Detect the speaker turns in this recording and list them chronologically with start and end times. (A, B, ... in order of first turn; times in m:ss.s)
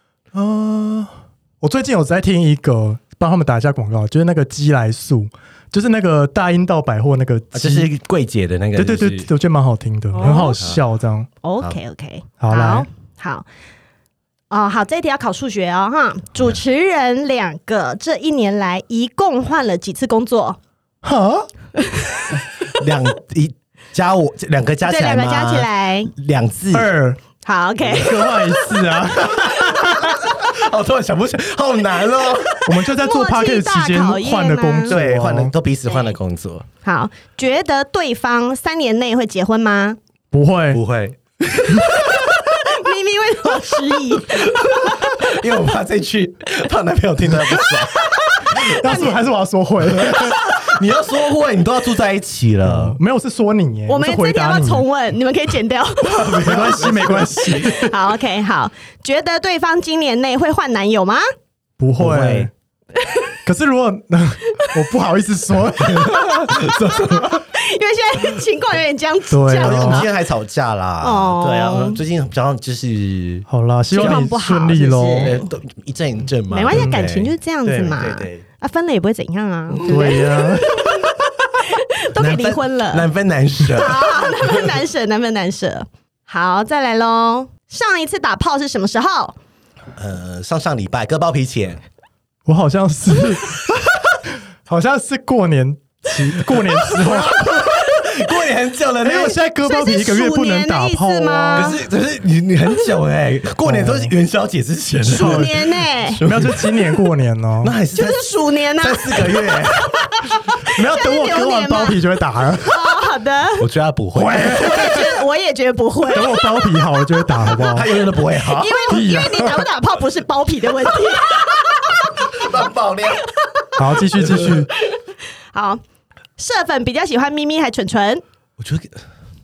0:00.3-0:07.9 A
0:07.5-0:09.3 B
0:08.8-0:11.3 A
0:10.1-0:10.6 C
0:10.2-0:10.8 B
0:11.4-0:13.5 C
0:12.4-0:12.9 A
0:14.5-0:20.6 C
0:21.0-0:21.5 A
0:21.8-0:22.4 C
0:22.8-0:26.9 B
0:24.8-0:26.1 C
0:26.7-0:27.2 A
0:27.4-0:28.5 C
0:27.9-0:30.2 A
0:29.4-0:32.9 B
0:32.7-0:35.5 A
0:32.9-0:35.0 C
0:34.9-0:36.7 B
0:35.9-0:36.1 C
0:36.8-0:40.0 C
0:40.3-0:40.8 A
0:40.7-0:42.3 B
0:42.3-0:45.0 C
0:44.8-0:49.1 B
0:48.7-0:50.4 A
0:48.8-0:49.2 C
0:49.9-0:53.0 B
0:52.6-0:54.9 A
0:53.9-0:56.4 C
0:56.0-0:57.8 B
0:56.4-0:57.9 A
0:57.4-1:01.2 C
1:01.8-1:02.5 A
1:02.0-1:02.5 B
1:03.4-1:06.2 A
1:05.8-1:07.4 B
1:06.4-1:10.1 C
1:09.3-1:10.1 A
1:09.5-1:14.3 B
1:11.0-1:12.0 C
1:13.5-1:15.4 A
1:13.9-1:15.5 C
1:15.1-1:18.4 B
1:16.5-1:21.1 C
1:19.7-1:21.2 B
1:19.8-1:20.7 A
1:21.7-1:23.1 C
1:22.2-1:24.8 B
1:23.7-1:29.4 C
1:30.0-1:31.8 B
1:32.5-1:33.6 A
1:34.6-1:37.4 A
1:36.4-1:39.4 B
1:39.0-1:41.8 A
1:39.6-1:41.8 C
1:41.5-1:47.0 B
1:43.6-1:44.1 A
1:45.0-1:45.5 A
1:45.0-1:46.2 C
1:46.2-1:47.7 A
1:47.6-1:50.0 B
1:47.9-1:52.0 C
1:50.7-1:52.8 A
1:52.7-1:53.6 C
1:53.6-1:54.8 B
1:54.2-1:55.1 A
1:54.5-1:56.4 C
1:56.1-1:57.9 A
1:57.5-1:58.9 B
1:58.4-2:01.6 C
1:58.9-1:59.6 A
2:02.2-2:03.3 B
2:03.8-2:04.7 A
2:03.9-2:04.6 B
2:05.5-2:05.8 C
2:06.4-2:08.2 C
2:08.6-2:09.0 B